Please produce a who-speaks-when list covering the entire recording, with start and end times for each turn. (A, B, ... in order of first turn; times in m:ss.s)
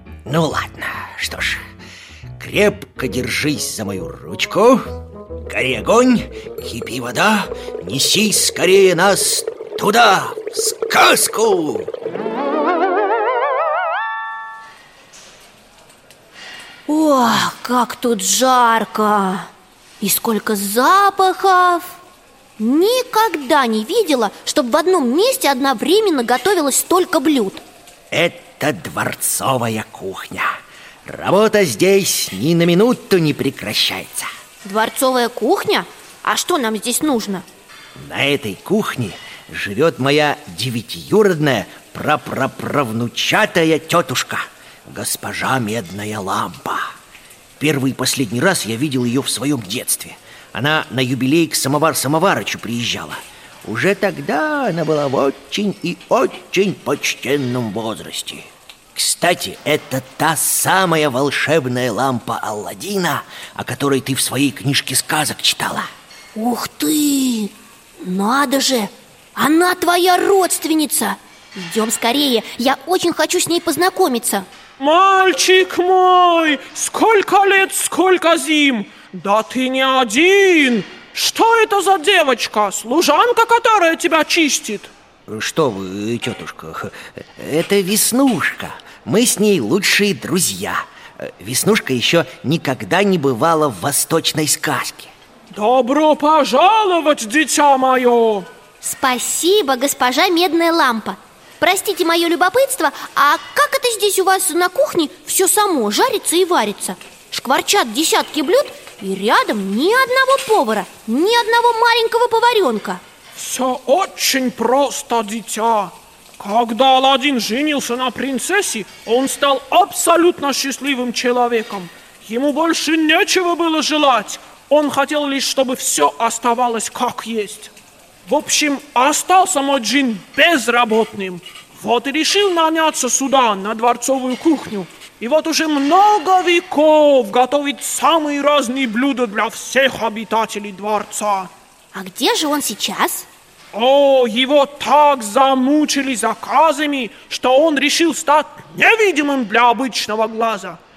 0:00.2-0:01.6 A
0:02.4-0:04.8 A
0:05.5-0:11.9 A
0:16.9-0:19.5 B
0:20.0-0:22.0 B
0:22.6-0:27.6 B
0:28.1-0:30.5 A
0:31.0-0:34.3 A
0:34.6-0:37.4 B
0:38.0-0:46.9 A
0:47.6-1:05.9 A
1:06.3-1:14.5 B
1:14.8-1:24.9 C
1:25.3-1:35.1 A
1:35.5-1:38.5 C
1:38.8-1:53.0 B
1:53.4-2:07.7 C
2:08.2-2:21.5 C
2:21.9-2:23.3 B
2:23.7-2:30.8 C